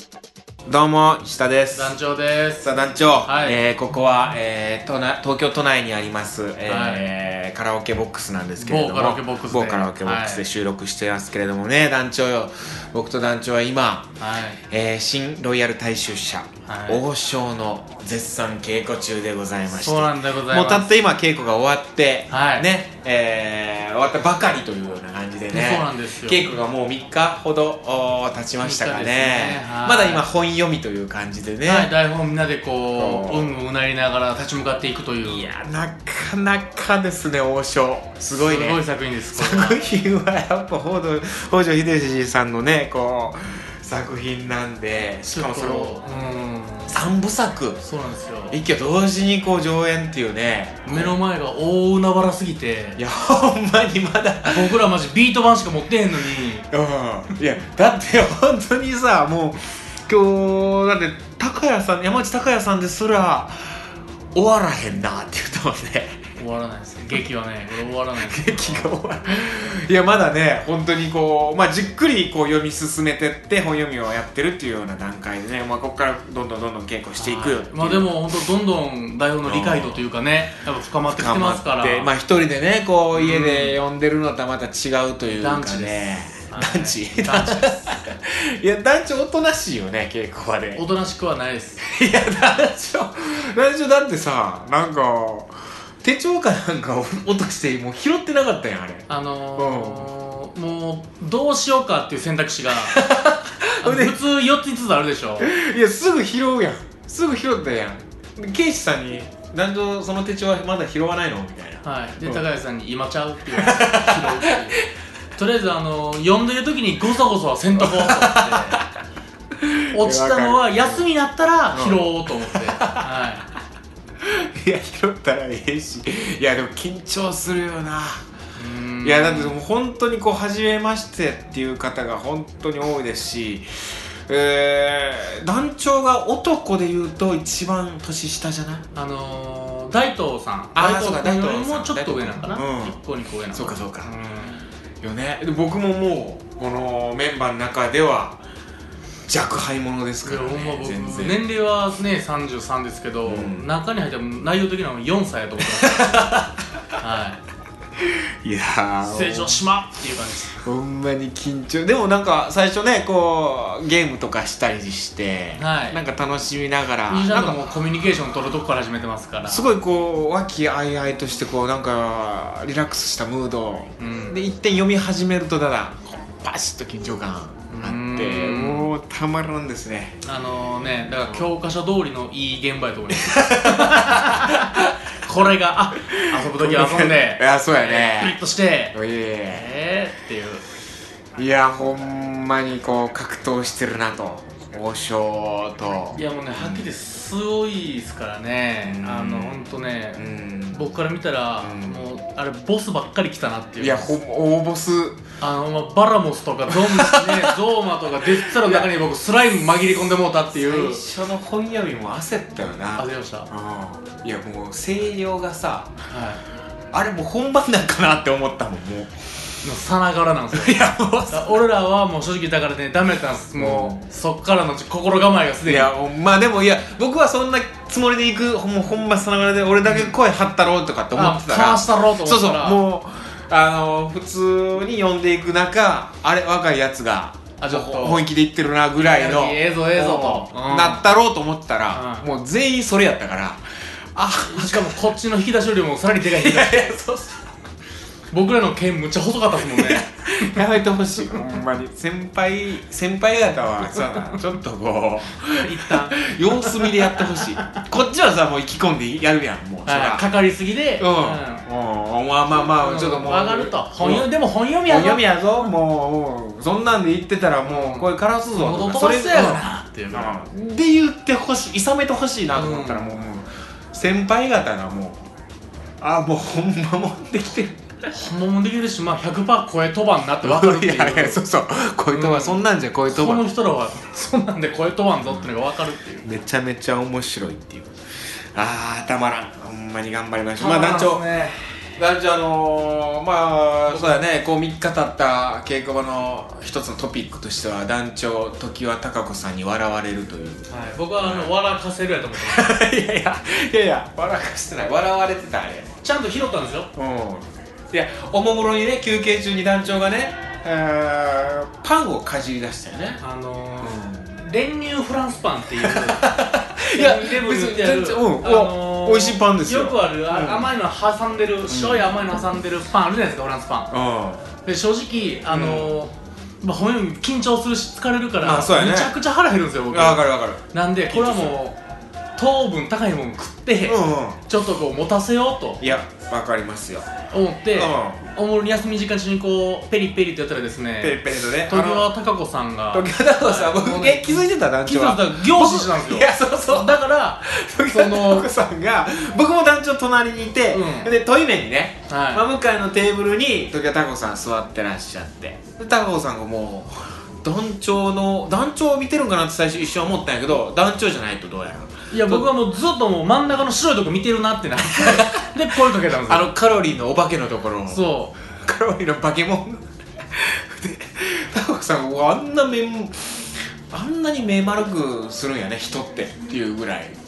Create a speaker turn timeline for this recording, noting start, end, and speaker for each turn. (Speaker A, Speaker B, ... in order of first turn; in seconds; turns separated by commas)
Speaker A: 0.7-1.9, Speaker B: 1.7-2.7, Speaker A: 2.6-31.9, Speaker B: 3.2-3.6, Speaker B: 6.7-7.0, Speaker B: 8.6-10.5, Speaker B: 14.2-14.6, Speaker B: 16.7-17.0, Speaker B: 19.8-20.9, Speaker B: 22.3-22.7, Speaker B: 25.5-26.6, Speaker B: 28.6-30.2, Speaker B: 31.6-35.5, Speaker A: 32.9-33.5, Speaker A: 35.2-46.0, Speaker B: 38.3-39.8, Speaker B: 45.3-47.0, Speaker A: 46.9-47.8, Speaker B: 47.8-48.6, Speaker A: 48.5-51.2, Speaker B: 50.9-53.0, Speaker A: 53.0-54.8, Speaker B: 54.5-56.7, Speaker A: 56.7-66.2, Speaker B: 66.4-69.0, Speaker A: 68.2-78.3, Speaker B: 77.2-82.1, Speaker A: 79.5-80.1, Speaker A: 81.1-90.8, Speaker B: 83.1-83.8, Speaker B: 85.3-88.0, Speaker B: 90.8-91.8, Speaker A: 91.8-100.1, Speaker B: 99.1-103.0, Speaker A: 102.8-104.2, Speaker B: 103.8-105.5, Speaker A: 105.4-112.4, Speaker B: 111.8-114.8, Speaker A: 113.5-114.9, Speaker B: 115.4-118.8, Speaker A: 117.8-118.9, Speaker A: 119.6-121.0, Speaker B: 119.9-123.5, Speaker A: 121.7-123.1, Speaker A: 124.2-128.2, Speaker B: 128.6-129.6, Speaker A: 129.0-138.9, Speaker B: 138.9-144.7, Speaker A: 140.8-143.0, Speaker A: 143.5-144.1, Speaker A: 145.0-148.4, Speaker A: 149.3-151.5, Speaker B: 150.2-156.3, Speaker A: 153.2-153.7, Speaker A: 155.6-156.5, Speaker B: 157.0-157.4, Speaker A: 158.0-159.6, Speaker B: 159.0-160.6, Speaker A: 160.6-167.7, Speaker B: 165.6-166.0, Speaker B: 167.1-169.7, Speaker A: 169.4-180.2, Speaker B: 174.0-174.4, Speaker B: 177.7-178.9, Speaker B: 180.2-189.0, Speaker A: 183.1-184.9, Speaker A: 186.0-188.4, Speaker A: 188.9-189.7, Speaker B: 189.5-190.6, Speaker A: 191.4-196.9, Speaker B: 196.1-204.2, Speaker A: 198.8-201.0, Speaker A: 201.6-202.1, Speaker A: 203.8-205.2, Speaker B: 205.4-211.0, Speaker A: 206.7-207.6, Speaker A: 208.4-208.9, Speaker A: 210.5-216.0, Speaker B: 213.0-213.5, Speaker B: 216.1-216.4, Speaker A: 216.9-219.3, Speaker B: 219.6-225.9, Speaker A: 220.5-221.6, Speaker A: 223.6-224.0, Speaker A: 225.7-245.1, Speaker B: 229.8-230.2, Speaker B: 231.2-232.8, Speaker B: 237.6-238.3, Speaker B: 239.0-241.0, Speaker B: 241.9-242.3, Speaker B: 244.4-247.0, Speaker A: 246.2-247.5, Speaker B: 248.3-250.6, Speaker A: 249.6-260.3, Speaker B: 255.6-257.4, Speaker B: 259.9-261.6, Speaker A: 261.0-264.3, Speaker B: 262.6-265.3, Speaker A: 264.9-275.2, Speaker B: 267.6-270.4, Speaker B: 272.5-273.2, Speaker A: 276.0-278.1, Speaker B: 278.1-281.4, Speaker A: 280.4-283.5, Speaker B: 282.1-286.3, Speaker A: 286.2-288.0, Speaker A: 288.5-300.7, Speaker B: 290.6-291.6, Speaker B: 293.9-294.2, Speaker B: 300.7-302.7, Speaker A: 301.2-301.6, Speaker A: 302.4-306.0, Speaker B: 306.0-306.9, Speaker A: 306.9-313.2, Speaker B: 313.2-323.9, Speaker A: 313.8-314.4, Speaker A: 315.8-320.7, Speaker A: 321.7-322.2, Speaker A: 323.9-324.5, Speaker B: 324.6-331.8, Speaker A: 325.5-326.0, Speaker A: 328.4-329.1, Speaker A: 329.9-331.6, Speaker B: 332.4-335.8, Speaker A: 333.9-334.4, Speaker A: 335.8-337.1, Speaker B: 337.3-348.5, Speaker A: 337.7-338.2, Speaker A: 341.0-342.1, Speaker A: 342.9-362.6, Speaker B: 350.7-351.1, Speaker B: 352.1-352.4, Speaker B: 362.1-366.5, Speaker A: 364.8-377.2, Speaker B: 367.9-368.4